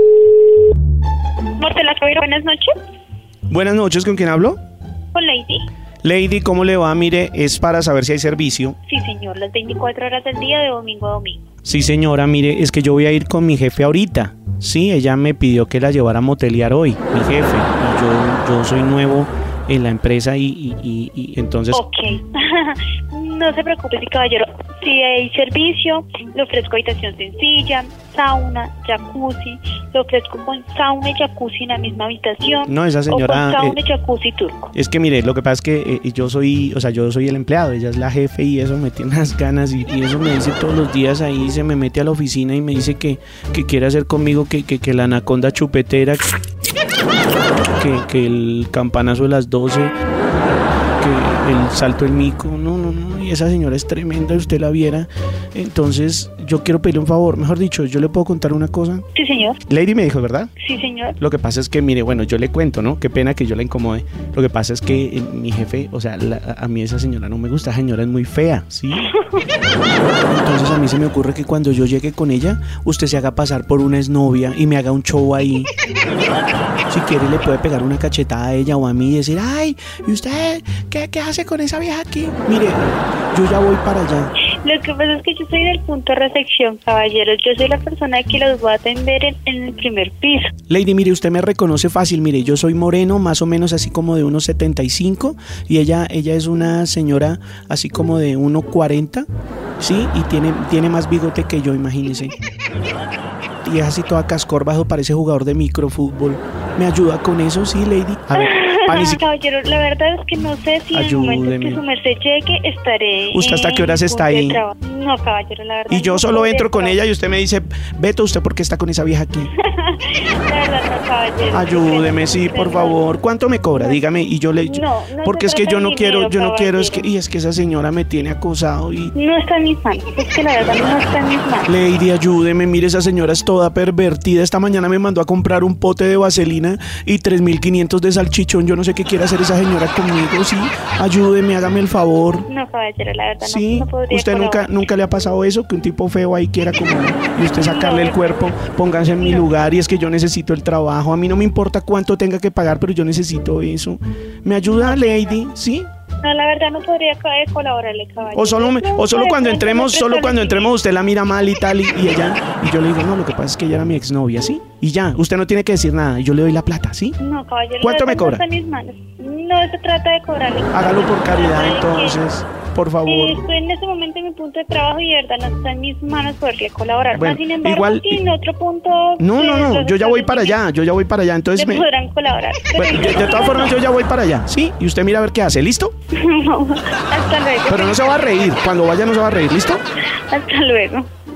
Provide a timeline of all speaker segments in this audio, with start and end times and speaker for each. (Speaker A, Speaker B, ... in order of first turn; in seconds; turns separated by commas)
Speaker A: 1.6-2.7, Speaker B: 3.5-4.6, Speaker A: 5.1-5.7, Speaker B: 6.0-8.8, Speaker A: 8.8-11.4, Speaker B: 11.6-21.8, Speaker A: 21.7-34.7, Speaker B: 32.6-33.8, Speaker B: 34.7-46.3, Speaker B: 47.8-49.9, Speaker B: 51.0-59.0, Speaker A: 59.1-59.6, Speaker B: 59.7-60.5, Speaker A: 60.6-61.2, Speaker B: 61.2-69.1, Speaker A: 68.9-69.5, Speaker B: 70.0-75.7, Speaker B: 76.9-84.3, Speaker A: 84.6-90.5, Speaker B: 90.7-99.2, Speaker B: 99.8-102.3, Speaker B: 103.6-109.2, Speaker A: 108.3-117.0, Speaker B: 110.9-111.8, Speaker B: 113.3-114.6, Speaker B: 115.9-119.5, Speaker A: 119.6-123.0, Speaker B: 121.5-129.1, Speaker A: 123.7-124.0, Speaker A: 124.6-127.0, Speaker A: 129.1-131.7, Speaker B: 131.7-142.5, Speaker A: 142.5-144.8, Speaker B: 143.4-155.9, Speaker A: 147.4-149.6, Speaker A: 154.6-155.4, Speaker A: 156.2-160.8, Speaker B: 158.3-167.2, Speaker A: 167.2-172.2, Speaker B: 167.8-168.4, Speaker B: 170.7-173.4, Speaker A: 173.0-180.6, Speaker B: 177.1-178.2, Speaker B: 179.2-181.8, Speaker A: 181.5-183.8, Speaker B: 182.8-185.9, Speaker A: 186.1-188.4, Speaker B: 187.7-189.8, Speaker A: 190.3-191.1